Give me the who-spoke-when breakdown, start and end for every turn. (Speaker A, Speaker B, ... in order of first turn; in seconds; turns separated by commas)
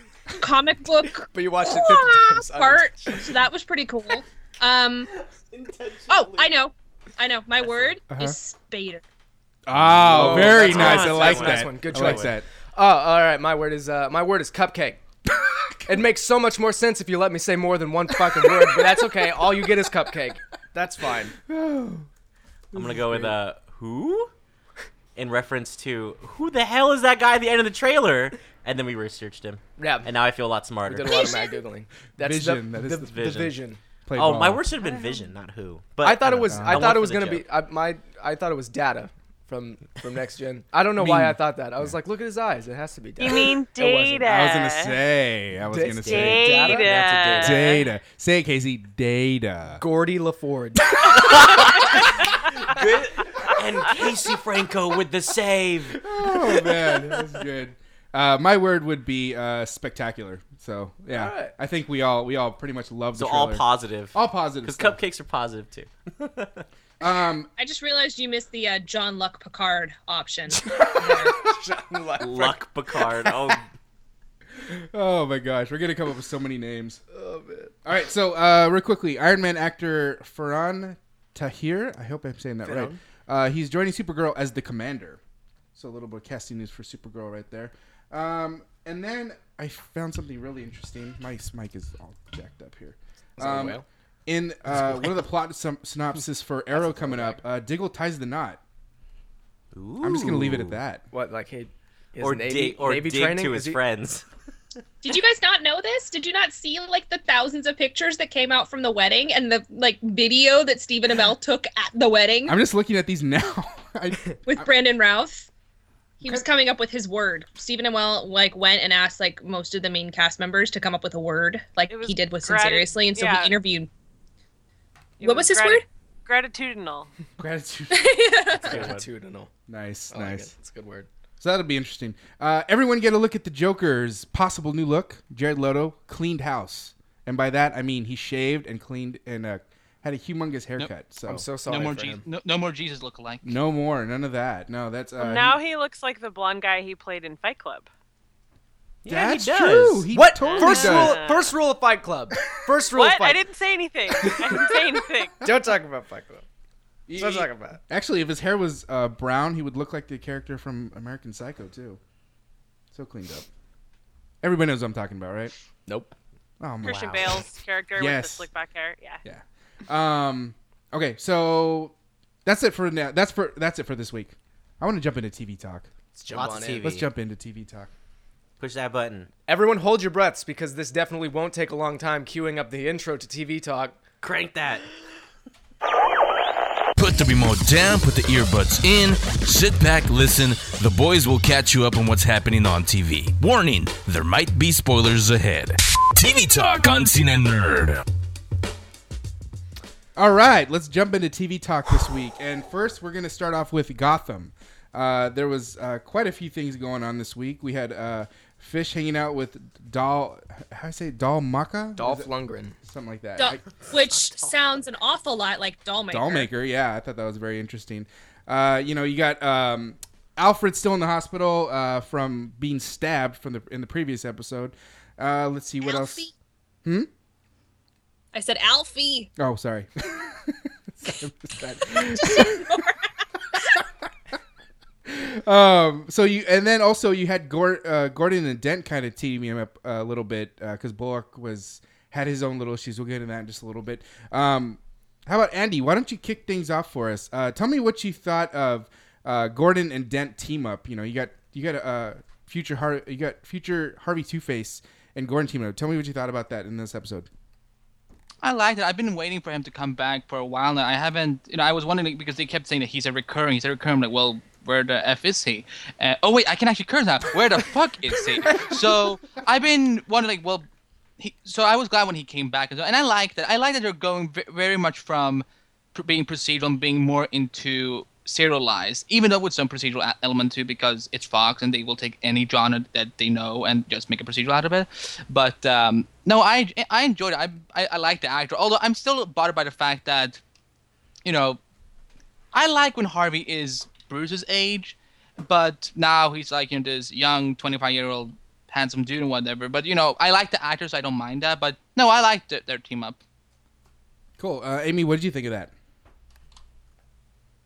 Speaker A: 0.4-5.1, Speaker B: 1.3-3.3, Speaker C: 5.1-6.5, Speaker A: 6.1-9.0, Speaker D: 8.1-8.4, Speaker D: 9.7-12.4, Speaker C: 9.8-12.3, Speaker B: 9.9-15.0, Speaker D: 15.3-15.8, Speaker B: 15.9-21.4, Speaker D: 18.2-18.8, Speaker D: 21.5-22.1, Speaker C: 22.8-24.3, Speaker C: 25.1-31.4, Speaker B: 29.8-30.1, Speaker B: 30.9-33.8, Speaker A: 31.1-31.6, Speaker D: 32.2-33.2, Speaker C: 33.0-33.5, Speaker D: 34.1-34.6, Speaker C: 34.1-37.4, Speaker A: 34.8-35.3, Speaker B: 36.0-44.3, Speaker D: 36.5-36.9, Speaker D: 41.0-41.9, Speaker E: 43.2-45.0, Speaker D: 44.3-46.8, Speaker B: 45.7-47.7, Speaker E: 46.0-47.9, Speaker D: 47.4-49.8, Speaker B: 49.8-51.3, Speaker C: 51.1-56.0, Speaker D: 56.0-65.0, Speaker B: 56.2-57.2, Speaker B: 61.1-61.5, Speaker C: 63.2-66.7, Speaker D: 67.0-67.5, Speaker A: 67.6-71.3, Speaker B: 70.8-72.6, Speaker C: 72.2-73.7, Speaker D: 74.7-77.0, Speaker B: 77.1-77.7, Speaker D: 77.8-85.2, Speaker B: 82.6-83.0, Speaker D: 85.7-98.6, Speaker B: 93.4-93.8, Speaker B: 96.7-97.4, Speaker C: 99.7-100.8, Speaker D: 100.0-101.0, Speaker B: 101.1-103.8, Speaker C: 102.2-104.2, Speaker A: 105.0-112.5, Speaker D: 112.5-114.7, Speaker A: 114.5-115.5, Speaker A: 116.2-123.9, Speaker E: 121.9-123.5, Speaker E: 125.2-127.1, Speaker A: 125.2-125.8, Speaker D: 127.4-128.2, Speaker A: 127.9-128.8, Speaker B: 128.6-129.5, Speaker C: 128.7-129.0, Speaker D: 129.7-130.5, Speaker B: 130.1-131.1, Speaker D: 131.4-141.4, Speaker B: 141.2-142.2, Speaker F: 141.7-143.6, Speaker D: 143.4-145.6, Speaker E: 145.2-147.9, Speaker C: 149.0-150.1, Speaker D: 149.1-151.2, Speaker B: 150.1-153.4, Speaker E: 150.4-151.5, Speaker E: 152.9-155.3, Speaker B: 154.2-154.7, Speaker B: 155.4-156.4, Speaker D: 157.1-162.0, Speaker B: 157.1-157.8, Speaker D: 162.9-163.5, Speaker D: 164.4-165.5, Speaker B: 165.9-166.1, Speaker D: 166.6-167.3, Speaker E: 166.8-169.2, Speaker C: 166.8-167.5, Speaker D: 168.0-168.5, Speaker D: 169.2-171.9, Speaker D: 172.4-175.9, Speaker B: 176.1-176.8, Speaker C: 176.3-177.1, Speaker D: 176.8-177.9, Speaker C: 178.6-179.3, Speaker B: 179.5-184.0, Speaker C: 184.2-184.9, Speaker G: 187.0-198.0, Speaker D: 200.2-212.3, Speaker B: 212.0-212.8, Speaker D: 212.8-213.6, Speaker A: 213.4-216.5, Speaker C: 213.6-214.5, Speaker D: 216.1-226.2, Speaker A: 225.8-226.3, Speaker A: 228.3-229.3, Speaker D: 229.4-232.8, Speaker A: 231.9-233.8, Speaker D: 235.1-257.3, Speaker F: 258.4-270.7, Speaker F: 271.2-290.4, Speaker F: 291.2-291.6, Speaker F: 292.5-303.2, Speaker D: 304.4-305.7